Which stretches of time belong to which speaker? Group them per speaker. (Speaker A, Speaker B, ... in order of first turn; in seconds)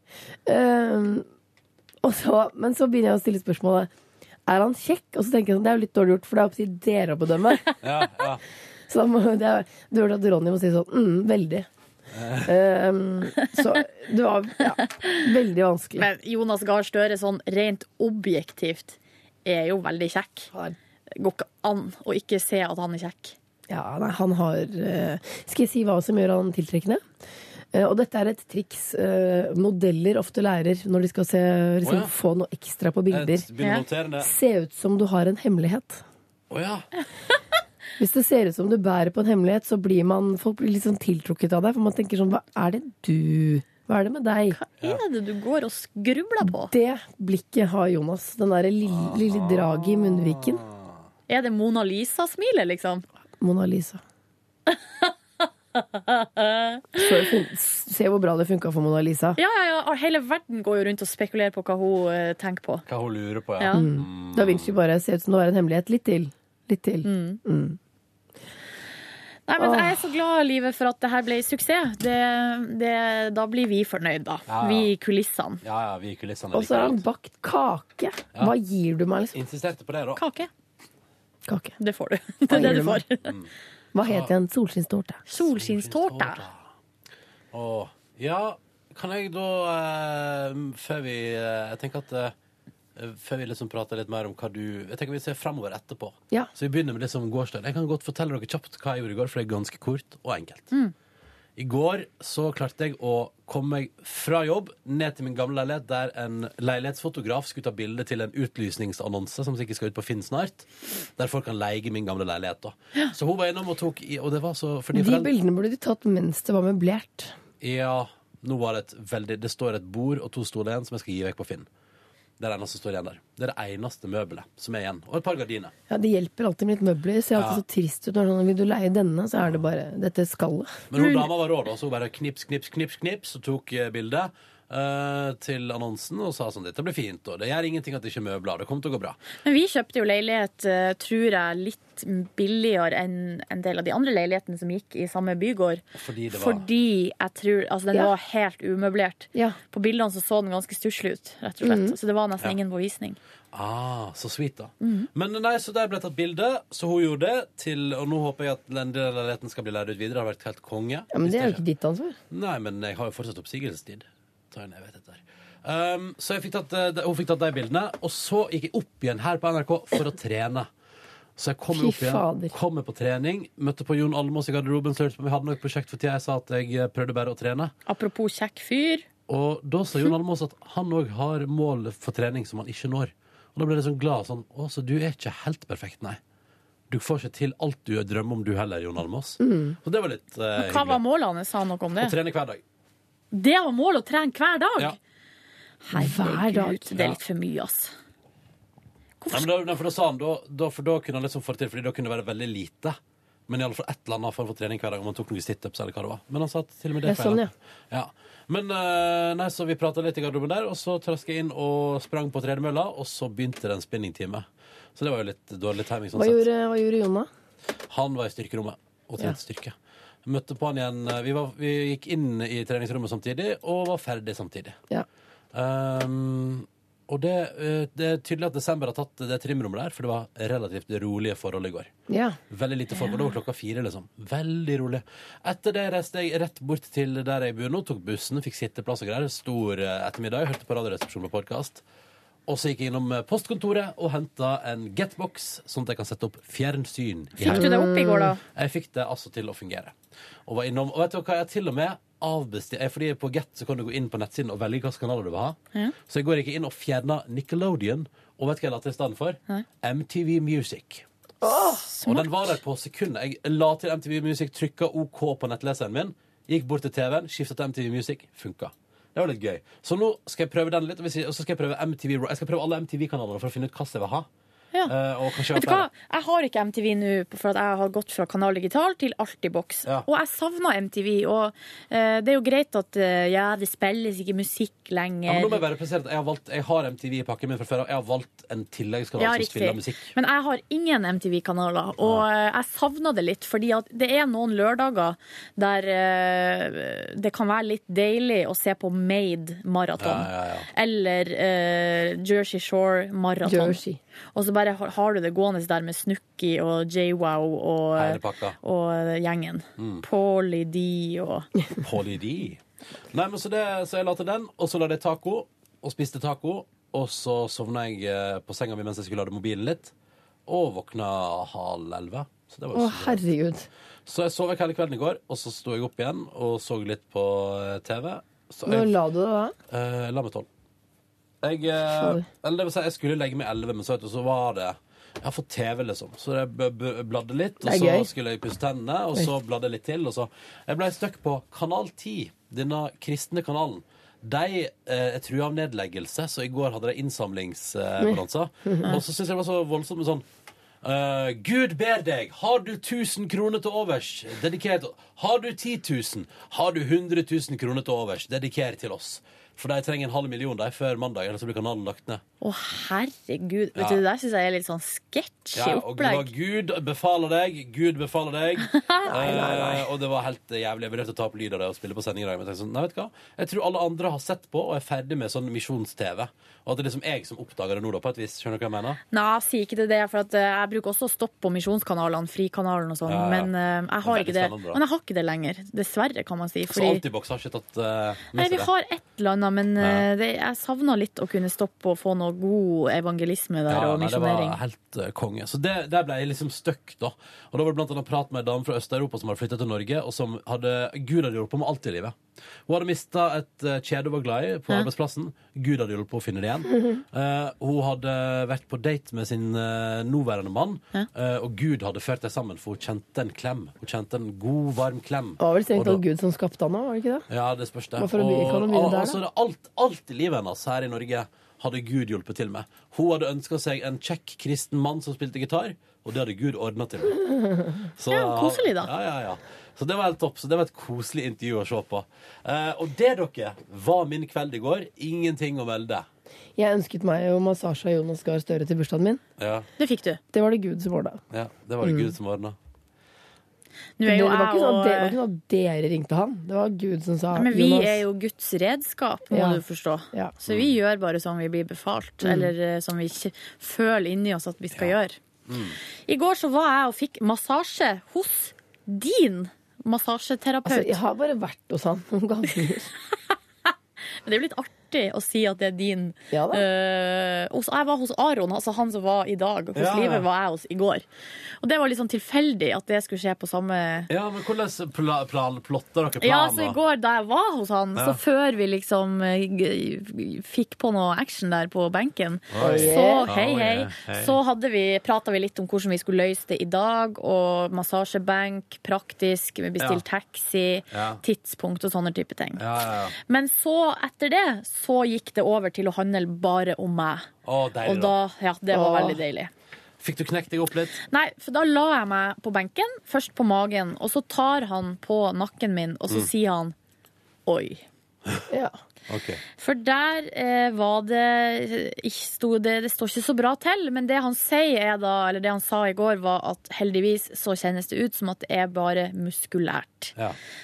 Speaker A: 0.5-1.3, 2.0-3.9, 4.5-7.7, 8.9-11.7, 12.4-16.1, 23.7-27.0, 27.7-33.5, 34.2-36.0, 38.0-44.6, 46.4-50.6, 53.4-54.0, 57.0-59.4, 63.7-67.8, 69.6-70.0, 76.5-79.4, 81.5-81.7, 82.5-83.0, 83.9-85.2, 114.9-117.3, 125.9-130.8, 151.6-152.0, 161.1-162.2, 171.7-172.5, 189.4-189.8, 195.9-196.9, 207.0-207.5, 216.2-217.3, 232.1-232.4, 247.4-248.4, 261.4-261.9, 303.4-304.0, 322.7-323.7, 328.7-329.6, 331.8-332.2, 337.6-338.1, 348.0-348.8, 369.1-369.9, 415.4-417.3, 418.0-419.2, 427.2-427.9, 436.6-439.2, 440.3-441.2, 441.8-442.1, 444.0-448.0, 449.3-449.6, 452.2-452.5, 460.7-462.9, 466.3-466.6, 482.6-483.3, 498.7-499.2, 508.5-508.8
Speaker B: 7.8-8.4, 12.1-12.5, 31.8-32.1, 33.1-34.3, 36.5-36.9, 48.9-50.7, 62.9-64.8, 74.5-74.9, 75.6-77.0, 79.3-80.2, 83.2-83.5, 84.0-84.3, 85.4-86.6, 87.5-92.3, 93.0-100.7, 101.6-115.3, 117.6-121.7, 122.4-125.7, 127.4-127.6, 130.9-139.2, 145.9-146.7, 153.5-161.6, 162.3-170.7, 171.4-177.7, 179.3-186.2, 186.9-191.0, 192.0-192.6, 199.3-203.0, 203.5-214.4, 215.0-216.5, 217.9-219.7, 220.2-224.8, 225.5-231.9, 232.5-241.8, 242.5-247.7, 248.5-249.9, 250.5-261.0, 262.1-274.3, 274.9-275.9, 285.3-290.1, 300.0-300.7, 308.0-308.6, 309.8-310.0, 311.8-319.9, 320.5-323.2, 324.1-329.0, 329.7-330.5, 331.4-350.2, 350.8-362.2, 363.8-364.0, 365.6-379.0, 383.1-383.5, 384.0-384.8, 386.7-388.7, 389.8-390.1, 393.7-402.1, 402.7-416.0, 417.3-427.2, 428.0-436.1, 439.4-439.7, 441.3-442.6, 450.5-450.8, 455.5-455.8, 469.8-470.2, 474.1-476.8, 482.5-484.4, 490.9-491.2, 492.6-493.1, 497.4-498.2, 500.0-501.0, 509.1-509.4
Speaker C: 16.0-20.5, 21.2-23.4, 44.5-46.7, 51.3-53.0, 54.7-55.1, 55.8-57.1, 59.4-62.9, 63.6-63.9, 67.0-67.4, 69.5-75.6, 80.2-80.5, 81.8-83.3, 85.3-86.4, 131.0-131.3, 139.4-153.2, 154.8-155.1, 177.9-179.1, 190.6-192.2, 193.3-195.0, 195.8-197.9, 199.2-199.5, 232.9-233.4, 247.4-248.4, 261.5-262.5, 275.5-285.6, 289.2-303.8, 304.3-311.5, 362.4-366.3, 368.7-369.2, 379.1-387.0, 388.3-394.6, 428.1-428.9, 439.8-440.2, 444.0-445.2, 447.3-455.2, 456.1-461.0, 464.2-471.1, 471.6-474.1, 476.2-492.6, 493.3-497.3, 497.8-499.5, 501.1-506.8, 507.5-507.9, 509.6-520.1